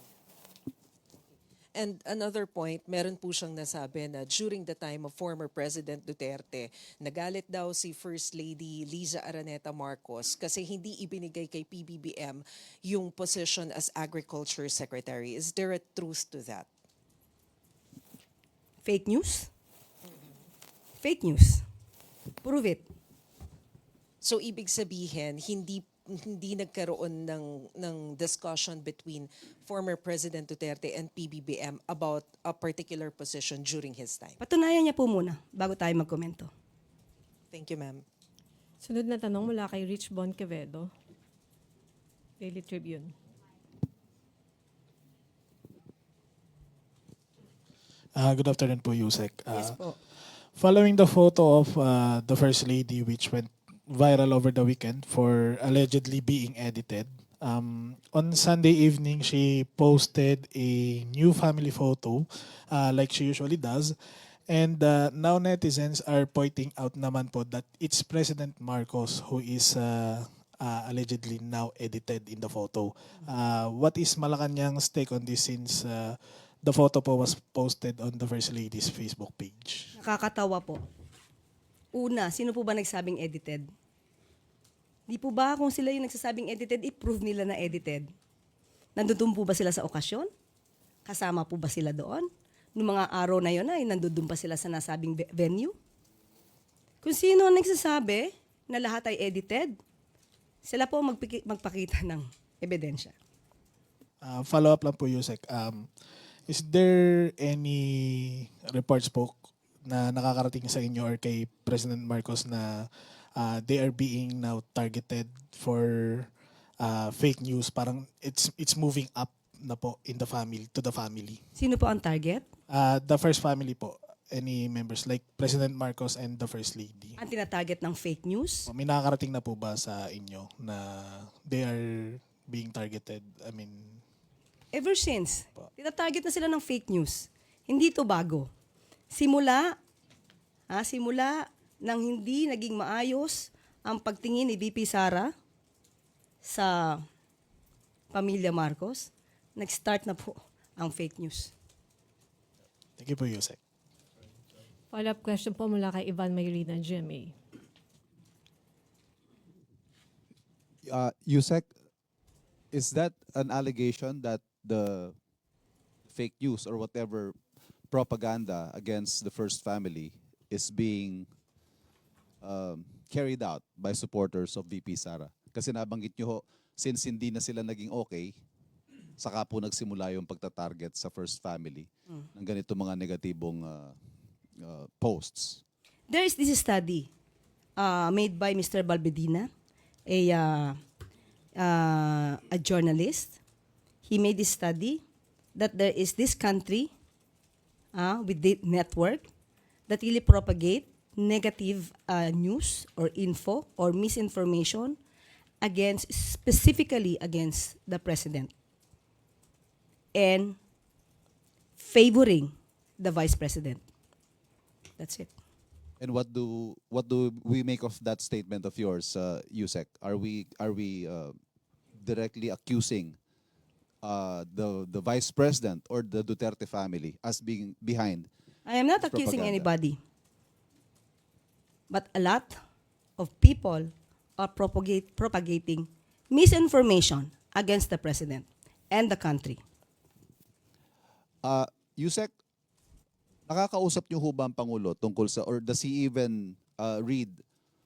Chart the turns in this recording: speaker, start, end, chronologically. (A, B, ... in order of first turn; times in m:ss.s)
0:01.8-0:16.7 A
0:18.8-0:19.5 B
0:21.0-0:21.6 B
0:22.4-0:22.8 B
0:24.2-0:34.4 A
0:34.4-0:36.5 B
0:37.5-0:38.0 A
0:38.8-0:40.9 C
0:42.4-0:43.1 C
0:48.2-0:49.8 D
0:49.5-0:50.0 B
0:50.5-1:04.0 D
1:04.5-1:19.9 D
1:20.0-1:20.8 B
1:22.0-1:23.7 B
1:25.1-1:28.1 B
1:29.0-1:30.3 B
1:31.1-1:35.8 B
1:37.0-1:39.8 B
1:40.7-1:43.1 B
1:44.2-1:45.9 D
1:46.5-2:01.4 D
2:01.6-2:02.5 B
2:02.7-2:07.2 D
2:07.2-2:08.7 B
2:08.7-2:14.0 D
2:14.7-2:18.5 B
2:19.1-2:19.8 B
2:20.7-2:25.3 B
2:26.4-2:27.0 B
2:28.1-2:31.5 B
2:33.0-2:33.6 D
2:34.9-2:37.4 C
2:40.8-2:41.7 E
2:42.7-2:45.2 E
2:46.1-2:47.4 E
2:47.9-2:51.3 E
2:52.4-2:58.4 E
2:59.2-3:04.0 E
3:04.6-3:05.6 E
3:06.1-3:07.1 B
3:07.8-3:09.5 B
3:10.1-3:10.8 B
3:11.6-3:13.4 B
3:14.1-3:15.0 B
3:15.6-3:16.9 B
3:18.0-3:19.3 B
3:19.9-3:25.0 B
3:25.6-3:28.5 B
3:30.2-3:30.6 B
3:31.8-3:33.8 B
3:35.0-3:35.3 B
3:36.0-3:41.4 E
3:42.0-3:43.2 E
3:44.0-3:48.3 E
3:48.7-3:50.0 B
3:49.1-3:49.7 E
3:51.9-3:52.6 B
3:53.2-3:59.6 B
4:01.4-4:02.3 E
4:03.5-4:07.4 E